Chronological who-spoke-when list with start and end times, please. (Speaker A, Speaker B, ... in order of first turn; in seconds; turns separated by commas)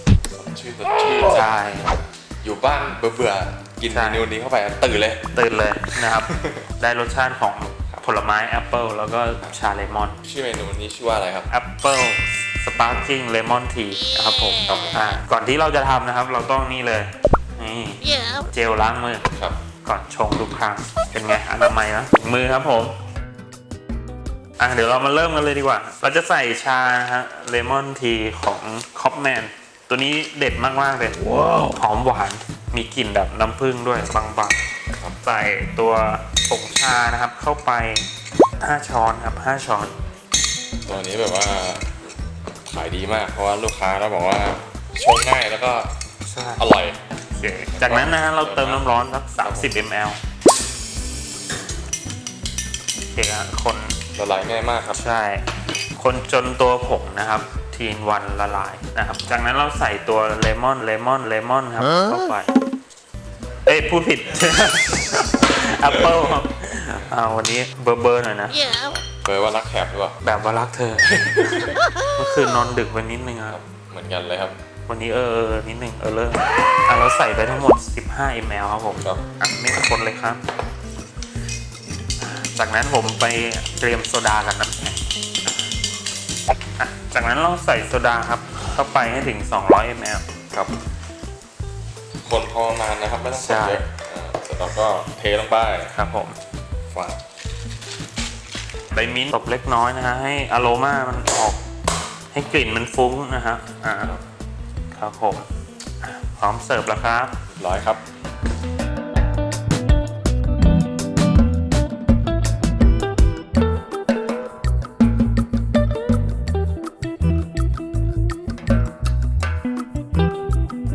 Speaker A: 0.3-1.5, Speaker B: 1.2-1.9, Speaker A: 2.4-5.3, Speaker B: 3.9-4.3, Speaker B: 5.3-10.2, Speaker A: 6.1-6.6, Speaker A: 10.2-11.5, Speaker B: 11.5-19.3, Speaker A: 14.7-15.0, Speaker A: 19.3-19.6, Speaker B: 19.8-23.0, Speaker B: 24.6-34.6, Speaker B: 35.2-38.1, Speaker B: 38.6-39.9, Speaker A: 40.9-42.0, Speaker A: 42.6-45.9, Speaker B: 46.2-46.7, Speaker A: 46.6-47.0, Speaker B: 47.3-50.2, Speaker A: 47.7-48.9, Speaker A: 49.4-49.8, Speaker B: 53.1-54.0, Speaker A: 54.1-55.0, Speaker B: 54.9-55.5, Speaker B: 56.0-62.5, Speaker B: 63.7-68.7, Speaker A: 66.0-66.3, Speaker A: 68.7-70.2, Speaker B: 70.2-73.6, Speaker A: 71.0-71.8, Speaker A: 73.5-74.6, Speaker B: 74.9-80.4, Speaker B: 82.2-85.0, Speaker B: 86.8-90.2, Speaker A: 92.2-95.9, Speaker B: 93.3-93.8, Speaker B: 95.9-96.4, Speaker A: 96.9-97.2, Speaker B: 98.9-101.6, Speaker B: 102.3-104.2, Speaker B: 104.9-105.5, Speaker B: 106.0-107.3, Speaker A: 107.5-108.0